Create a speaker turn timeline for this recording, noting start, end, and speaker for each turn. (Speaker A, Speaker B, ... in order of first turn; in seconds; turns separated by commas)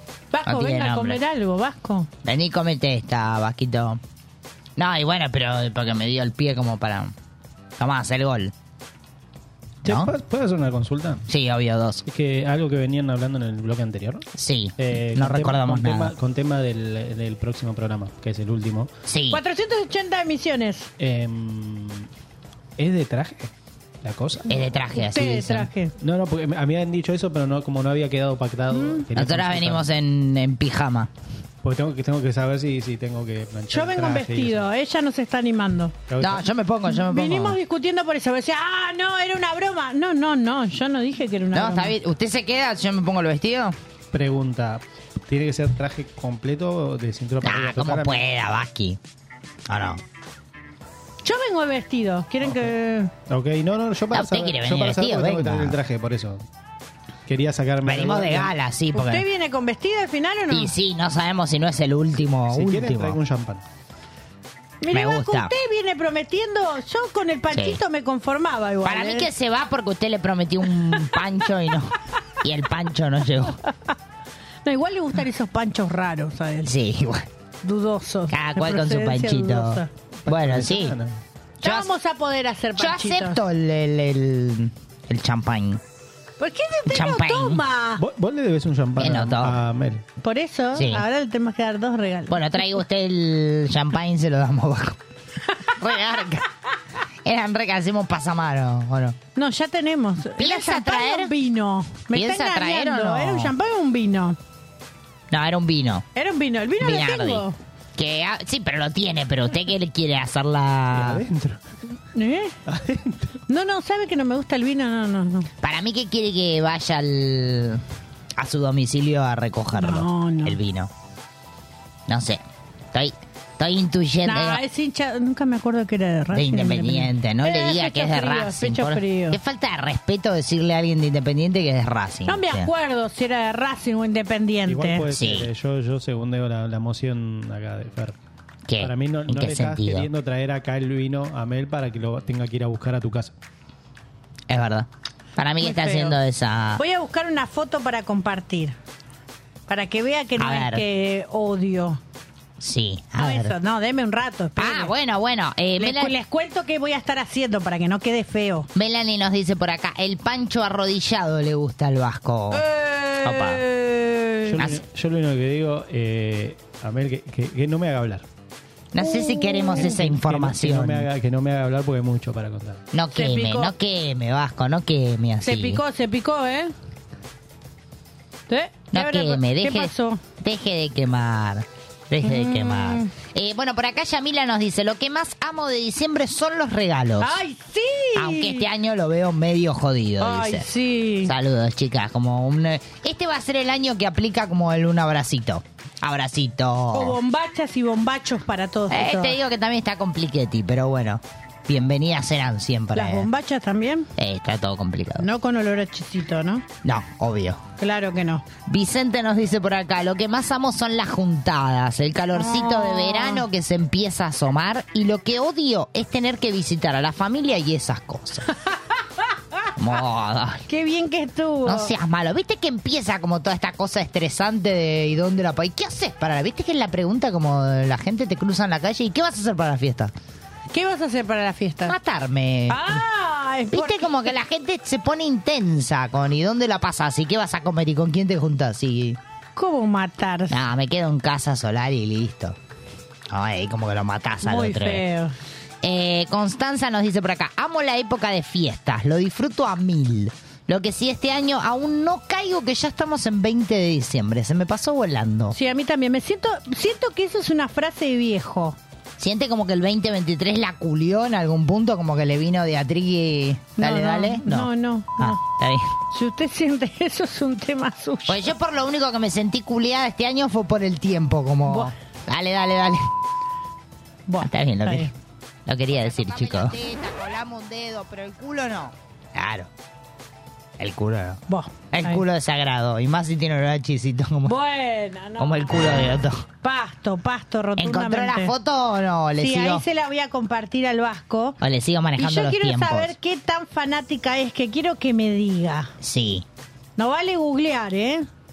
Speaker A: 0.3-2.1, Speaker B: 0.5-1.2, Speaker B: 2.2-4.0, Speaker B: 4.8-7.1, Speaker B: 7.8-8.5, Speaker C: 9.8-11.2, Speaker B: 9.8-10.1, Speaker B: 11.3-12.0, Speaker C: 12.1-14.3, Speaker B: 14.4-16.1, Speaker C: 14.8-18.9, Speaker B: 19.1-19.4, Speaker A: 19.3-20.9, Speaker C: 21.0-22.1, Speaker C: 22.8-23.5, Speaker C: 24.0-24.6, Speaker B: 24.5-25.7, Speaker A: 24.9-25.9, Speaker C: 26.0-29.9, Speaker A: 28.7-29.1, Speaker B: 29.1-31.1, Speaker C: 31.6-34.6, Speaker A: 33.7-36.0, Speaker C: 36.1-36.4, Speaker B: 36.2-37.6, Speaker A: 36.9-42.0, Speaker B: 41.5-43.8, Speaker C: 44.1-48.2, Speaker B: 47.4-49.0, Speaker B: 49.7-50.0, Speaker A: 51.2-53.1, Speaker C: 52.4-52.7, Speaker C: 53.3-56.5, Speaker B: 54.1-55.8, Speaker C: 57.3-58.5, Speaker B: 57.9-59.2, Speaker A: 58.9-60.7, Speaker B: 60.5-63.2, Speaker C: 62.5-63.6, Speaker A: 64.8-69.3, Speaker B: 64.9-65.5, Speaker B: 67.5-67.8, Speaker B: 68.8-73.6, Speaker A: 74.7-76.7, Speaker B: 76.6-77.3, Speaker A: 77.6-79.9, Speaker B: 78.3-81.0, Speaker C: 80.2-81.2, Speaker A: 81.6-83.4, Speaker B: 81.6-81.9, Speaker B: 82.8-85.8, Speaker A: 86.4-88.0, Speaker B: 86.9-87.6, Speaker C: 88.0-90.0, Speaker B: 89.0-89.6, Speaker A: 90.2-92.5, Speaker B: 90.7-91.0, Speaker B: 92.3-95.0, Speaker B: 95.8-96.5, Speaker B: 97.2-99.2, Speaker A: 99.4-104.4, Speaker B: 100.4-101.3, Speaker B: 102.1-103.5, Speaker B: 105.3-106.1, Speaker A: 106.2-107.6, Speaker B: 106.8-111.2, Speaker C: 110.9-111.6, Speaker A: 112.1-112.6, Speaker C: 112.7-113.4, Speaker A: 113.5-115.5, Speaker B: 115.6-117.8, Speaker B: 118.4-120.9, Speaker A: 119.8-120.6, Speaker B: 122.1-124.6, Speaker A: 124.2-129.4, Speaker B: 126.3-132.7, Speaker A: 132.3-135.1, Speaker C: 134.7-138.2, Speaker B: 135.1-135.5, Speaker B: 138.7-140.1, Speaker C: 138.8-143.3, Speaker B: 144.5-146.8, Speaker A: 145.6-146.2, Speaker A: 146.8-148.8, Speaker A: 149.7-152.0, Speaker B: 150.4-150.8, Speaker B: 152.6-153.6, Speaker A: 153.2-154.9, Speaker B: 154.6-156.1, Speaker A: 155.8-158.7, Speaker B: 158.8-162.7, Speaker A: 162.5-164.6, Speaker B: 163.2-163.6, Speaker C: 164.5-168.3, Speaker B: 168.9-171.1, Speaker A: 169.0-170.0, Speaker C: 169.8-172.8, Speaker B: 172.9-175.8, Speaker A: 173.1-173.7, Speaker A: 175.4-176.7, Speaker A: 178.5-180.2, Speaker B: 178.9-187.4, Speaker A: 182.2-183.1, Speaker A: 187.2-188.7, Speaker B: 188.2-190.7, Speaker A: 190.2-191.3, Speaker B: 191.2-197.2, Speaker A: 196.9-199.4, Speaker B: 198.9-203.3, Speaker A: 202.9-204.1, Speaker B: 204.2-205.3, Speaker A: 205.2-206.7, Speaker B: 206.8-207.6, Speaker A: 207.8-208.4, Speaker B: 208.7-218.5, Speaker A: 212.3-213.4, Speaker B: 219.8-220.6, Speaker A: 220.7-221.9, Speaker B: 221.7-230.1, Speaker A: 230.7-231.9, Speaker B: 231.9-233.0, Speaker A: 232.7-234.3, Speaker B: 233.7-239.2, Speaker A: 239.6-240.6, Speaker B: 240.5-242.6, Speaker B: 243.3-245.0, Speaker A: 244.4-245.3, Speaker B: 245.8-255.6, Speaker A: 255.5-258.8, Speaker B: 259.2-266.0, Speaker A: 263.8-265.4, Speaker A: 266.1-268.4, Speaker B: 268.3-273.1, Speaker A: 271.7-271.9, Speaker A: 274.3-275.1, Speaker B: 274.4-275.1, Speaker B: 275.7-279.7, Speaker B: 280.8-281.4, Speaker A: 281.5-282.2, Speaker B: 281.9-284.6, Speaker A: 284.5-285.8, Speaker B: 285.4-286.4, Speaker A: 286.6-288.5, Speaker B: 287.8-289.9, Speaker A: 289.4-291.6, Speaker B: 291.6-293.1, Speaker A: 292.2-295.9, Speaker B: 296.0-296.5, Speaker A: 297.0-298.3